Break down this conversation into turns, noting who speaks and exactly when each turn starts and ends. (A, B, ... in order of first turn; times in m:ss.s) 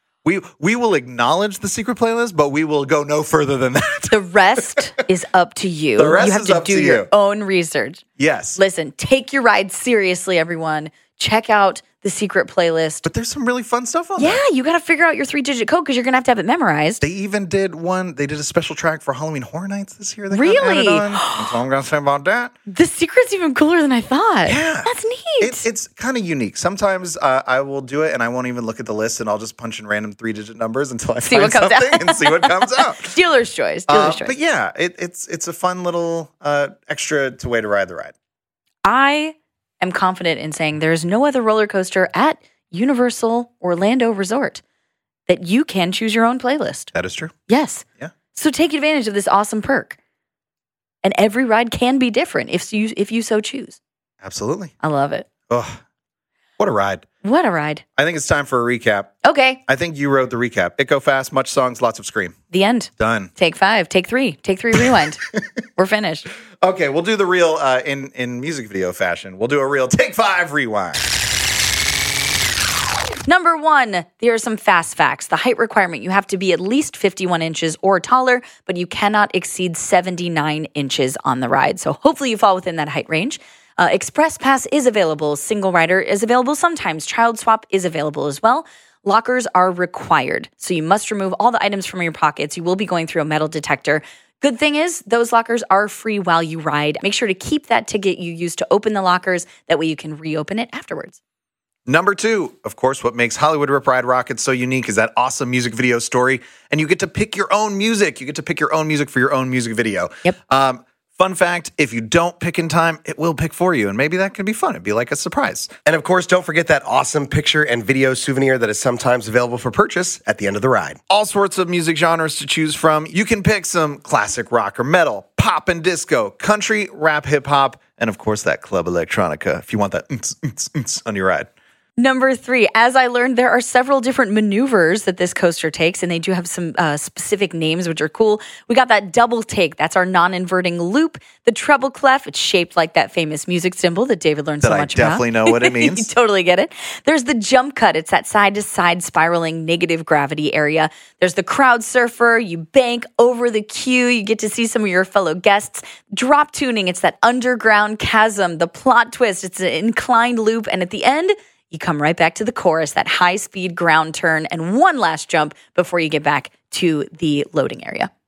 0:00.2-0:04.9 A
0:04.1-0:08.0 B
0:06.0-0:07.1 A
0:08.2-0:08.6 A
0:08.6-0:13.0 B
0:13.0-0:14.4 A
0:14.2-0:17.0 B
0:17.0-0:22.5 A
0:20.3-0:21.6 B
0:22.7-0:25.6 B
0:24.5-0:33.2 A
0:31.2-0:34.3 B
0:33.9-0:38.1 A
0:38.8-0:44.6 B
0:45.3-0:46.9 B
0:46.9-0:47.3 A
0:47.5-0:50.0 B
0:51.0-0:53.8 B
0:54.2-0:54.7 A
0:54.8-0:55.3 B
0:55.5-0:55.8 A
0:56.6-0:57.1 A
0:57.2-0:57.8 B
0:58.0-0:59.1 A
0:59.2-0:59.6 B
0:59.6-1:02.4 A
1:02.5-1:05.2 B
1:03.0-1:03.3 A
1:04.8-1:05.4 A
1:05.8-1:06.3 B
1:06.6-1:11.0 A
1:13.2-1:41.2 B
1:41.8-1:55.8 A
1:55.8-2:01.0 C
1:59.9-2:00.3 A
2:01.0-2:11.5 A
2:12.0-2:48.1 B
2:24.6-2:26.1 A